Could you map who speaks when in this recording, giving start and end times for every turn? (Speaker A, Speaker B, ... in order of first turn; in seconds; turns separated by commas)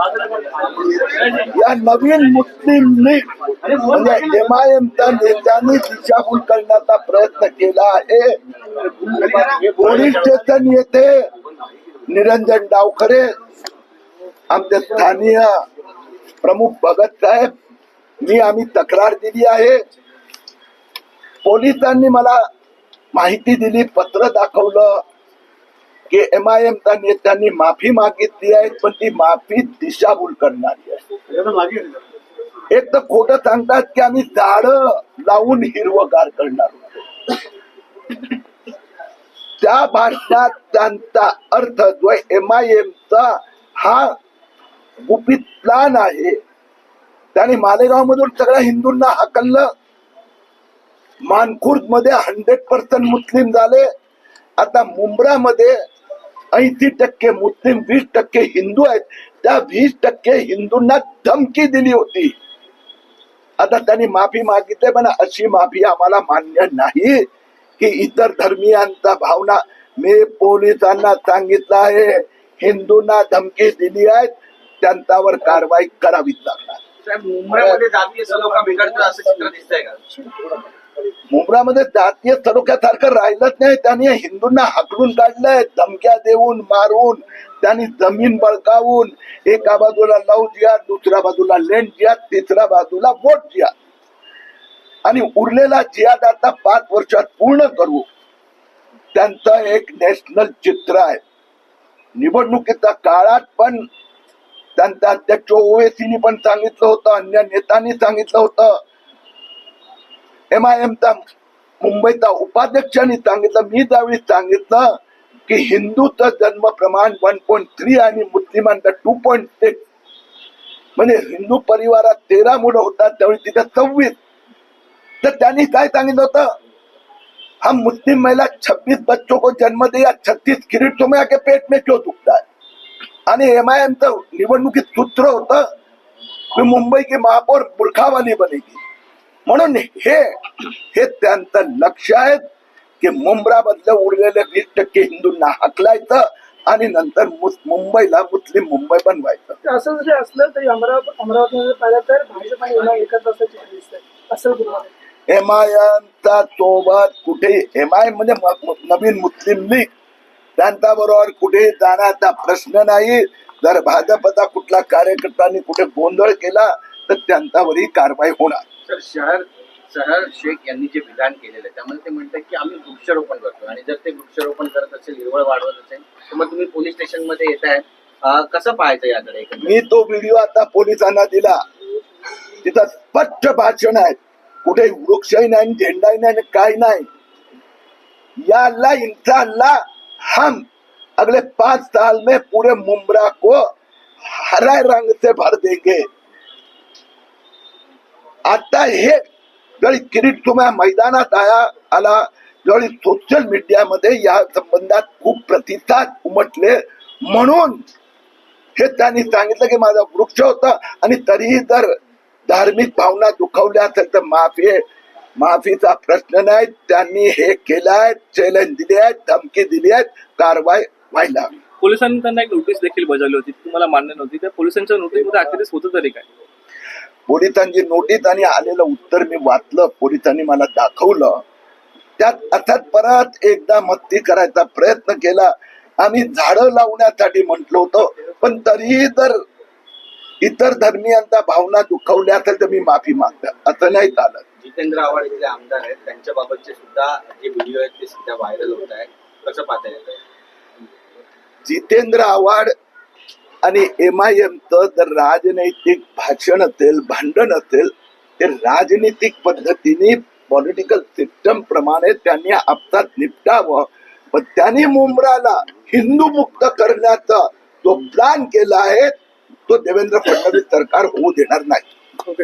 Speaker A: 1.4-8.4, Speaker A: 9.1-11.3, Speaker A: 12.1-13.3, Speaker A: 14.5-15.6, Speaker A: 16.4-17.5, Speaker A: 18.2-19.8, Speaker A: 21.4-22.4, Speaker A: 23.1-25.0, Speaker A: 26.1-31.1, Speaker A: 32.7-37.4, Speaker A: 39.6-44.1, Speaker A: 45.0-46.4, Speaker A: 47.4-49.7, Speaker A: 51.3-53.9, Speaker A: 54.6-55.8, Speaker A: 56.5-62.3, Speaker A: 63.6-67.2, Speaker A: 67.8-76.8, Speaker B: 77.0-80.0, Speaker A: 81.3-93.7, Speaker A: 95.0-98.1, Speaker A: 99.1-101.2, Speaker A: 102.2-103.9, Speaker A: 104.8-108.8, Speaker A: 110.5-111.2, Speaker A: 111.8-115.0, Speaker A: 115.5-119.8, Speaker A: 121.0-124.2, Speaker A: 125.2-126.5, Speaker A: 127.6-132.4, Speaker A: 133.3-135.6, Speaker A: 136.5-138.8, Speaker A: 139.5-142.4, Speaker A: 143.0-149.6, Speaker C: 149.6-154.9, Speaker A: 155.3-159.9, Speaker A: 160.6-168.6, Speaker B: 168.9-179.8, Speaker A: 179.6-181.6, Speaker A: 182.6-187.1, Speaker A: 188.4-190.7, Speaker A: 191.2-193.6, Speaker A: 194.3-196.1, Speaker A: 198.5-199.2, Speaker A: 199.8-207.8, Speaker A: 208.8-211.9, Speaker A: 212.5-214.8, Speaker A: 215.4-221.5, Speaker D: 221.8-226.3, Speaker A: 227.3-231.4, Speaker A: 232.2-239.4, Speaker A: 240.4-244.4, Speaker B: 244.6-250.2, Speaker A: 251.7-252.7, Speaker A: 253.6-269.1, Speaker A: 269.7-271.9